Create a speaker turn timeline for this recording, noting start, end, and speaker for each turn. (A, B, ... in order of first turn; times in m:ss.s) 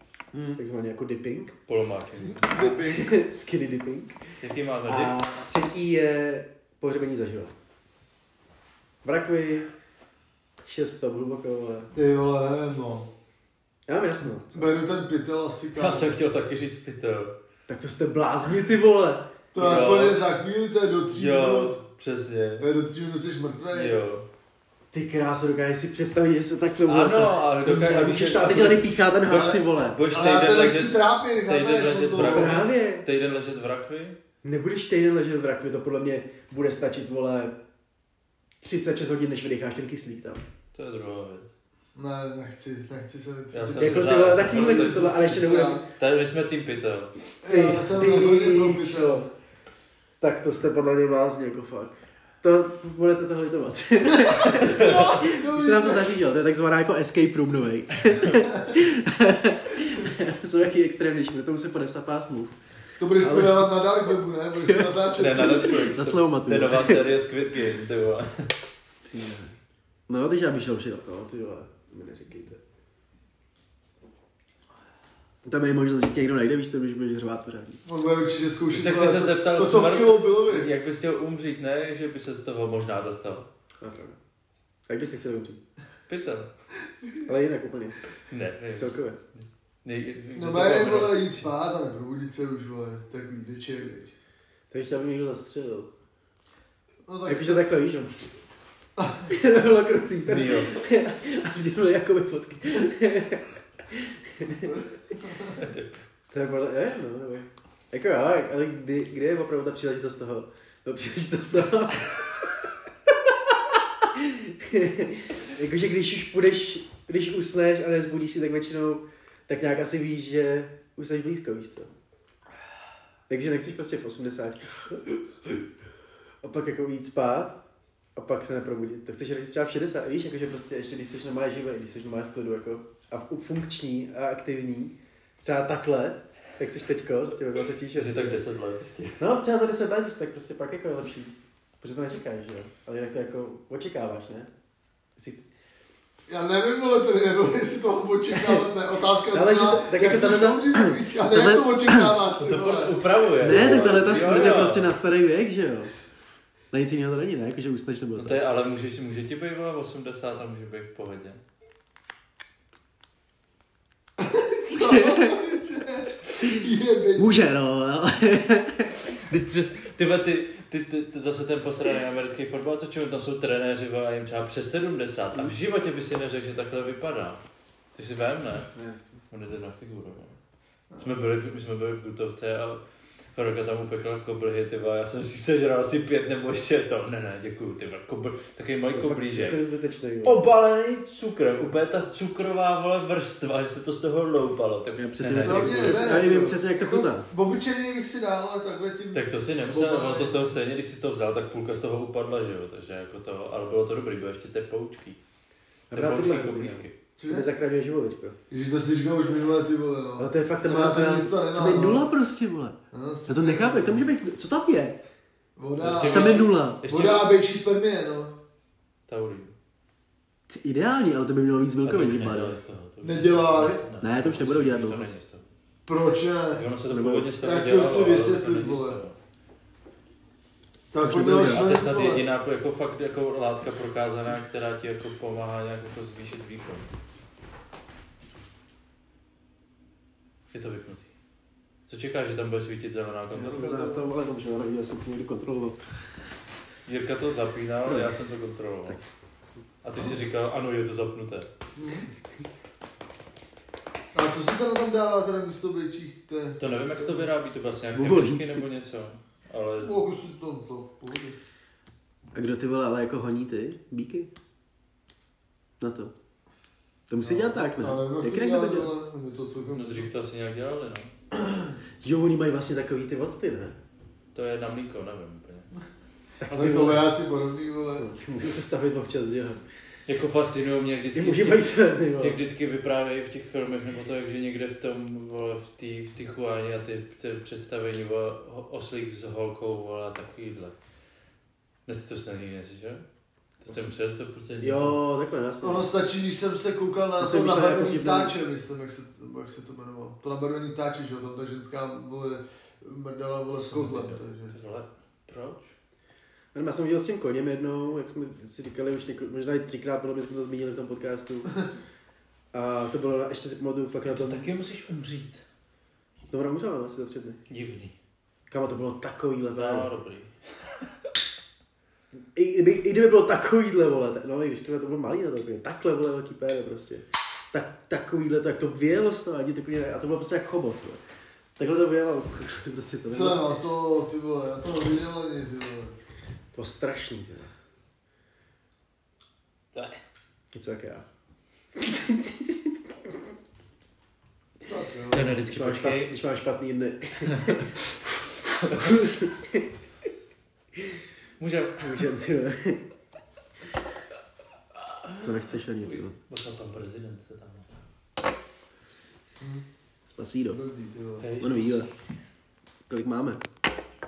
0:00.3-0:00.6 A
0:00.6-0:01.6 B
0:01.7-0:02.7 C
0:02.2-0:03.2 A
0:02.6-0:04.3 B
0:04.4-0:05.2 C
0:04.9-0:07.5 B
0:09.0-0:09.7 B
0:10.6-0:11.9 B
0:11.9-0:13.1 A
0:13.9-0:14.7 B
0:14.5-0:16.2 A
0:15.8-0:17.3 C
0:17.7-0:19.9 B
0:19.5-0:21.8 A
0:19.6-0:20.3 C
0:21.1-0:22.7 C
0:22.6-0:24.0 A
0:23.7-0:24.2 C
0:24.9-0:30.0 B
0:26.9-0:34.2 C
0:30.1-0:32.7 A
0:32.2-0:33.1 B
0:34.4-0:37.6 B
0:38.6-0:40.4 B
0:40.7-0:41.5 C
0:42.0-0:45.8 A
0:43.5-0:47.3 C
0:43.8-0:45.9 B
0:47.4-0:49.3 A
0:47.4-0:49.3 B
0:50.2-1:02.6 B
0:54.2-0:56.1 A
1:03.0-1:05.8 A
1:03.2-1:03.9 B
1:04.6-1:07.1 B
1:05.1-1:08.5 C
1:09.0-1:09.6 B
1:10.1-1:12.6 B
1:15.4-1:17.8 B
1:17.9-1:20.7 A
1:18.7-1:23.5 C
1:23.8-1:24.2 B
1:24.9-1:25.6 B
1:26.1-1:26.5 C
1:27.2-1:28.0 B
1:28.3-1:31.4 C
1:28.8-1:29.2 B
1:30.4-1:34.1 A
1:34.7-1:35.9 B
1:37.1-1:37.7 A
1:37.3-1:38.4 B
1:39.0-1:39.3 A
1:39.3-1:44.8 B
1:40.3-1:40.8 C
1:44.5-1:45.6 A
1:45.5-1:46.0 C
1:46.3-1:52.7 B
1:53.7-2:01.9 B
2:03.3-2:04.8 B
2:06.4-2:07.6 B
2:08.2-2:18.4 B
2:17.9-2:19.2 C
2:19.2-2:24.5 B
2:25.2-2:25.5 B
2:26.3-2:34.0 A
2:28.3-2:28.6 B
2:29.3-2:32.2 B
2:32.4-2:34.9 C
2:33.4-2:35.9 B
2:36.7-2:38.4 B
2:38.2-2:41.4 C
2:44.2-2:47.5 A
2:44.8-2:45.4 B
2:46.4-2:46.6 B
2:47.2-2:49.6 B
2:49.3-2:57.4 C
2:58.0-2:58.7 C
2:58.7-2:59.2 B
2:59.3-3:00.3 C
3:01.0-3:02.8 C
3:03.3-3:09.6 C
3:08.9-3:10.4 B
3:10.2-3:16.0 C
3:15.0-3:17.3 B
3:15.4-3:20.5 A
3:19.1-3:25.2 C
3:25.9-3:27.0 C
3:25.9-3:28.4 B
3:27.2-3:27.5 A
3:28.5-3:32.1 A
3:30.2-3:35.0 B
3:32.9-3:34.1 A
3:35.6-3:38.4 A
3:35.8-3:37.3 C
3:36.0-3:36.8 B
3:39.1-3:39.5 C
3:40.5-3:42.6 B
3:41.8-3:45.4 C
3:43.0-3:43.8 A
3:44.0-3:45.1 B
3:45.9-3:46.7 A
3:46.5-3:49.2 C
3:46.9-3:47.3 B
3:47.4-3:49.0 A
3:50.9-3:52.3 A
3:51.0-3:51.7 B
3:51.2-3:56.9 C
4:00.5-4:01.1 C
4:01.9-4:04.1 C
4:03.3-4:05.8 B
4:06.9-4:09.0 C
4:07.9-4:08.2 B
4:09.8-4:11.5 C
4:11.8-4:12.1 A
4:14.1-4:16.6 A
4:16.6-4:20.0 C
4:17.9-4:18.6 B
4:19.8-4:21.4 A
4:22.3-4:24.3 B
4:25.8-4:26.1 B
4:27.1-4:28.9 B
4:27.2-4:30.1 A
4:29.7-4:31.1 C
4:31.3-4:33.8 B
4:34.3-4:35.7 C
4:36.4-4:37.1 B
4:36.5-4:38.1 A
4:38.0-4:39.6 B
4:40.1-4:50.8 C
4:41.1-4:42.4 B
4:51.9-4:53.0 C
4:53.6-4:55.0 C
4:54.6-4:55.9 B
4:55.6-5:04.5 A
4:57.2-4:58.3 B
5:03.6-5:05.7 C
5:06.5-5:11.6 B
5:12.5-5:14.5 B
5:14.0-5:15.4 C
5:16.3-5:17.4 B
5:17.5-5:18.0 C
5:18.5-5:19.9 B
5:19.6-5:20.3 C
5:22.4-5:31.0 B
5:31.6-5:33.5 B
5:33.1-5:36.0 A
5:36.5-5:37.5 B
5:39.7-5:40.0 C
5:40.5-5:41.0 B
5:41.8-5:43.2 B
5:44.6-5:45.4 A
5:45.1-5:46.2 C
5:45.5-5:47.8 B
5:48.6-5:49.0 C
5:48.6-5:49.7 B
5:51.4-5:52.1 C
5:51.8-5:52.8 B
5:54.9-5:57.8 C
5:55.2-5:56.2 B
5:59.4-5:59.7 A
6:00.1-6:00.6 B
6:00.5-6:01.3 A
6:01.2-6:01.9 C
6:01.4-6:01.9 B
6:02.9-6:03.4 B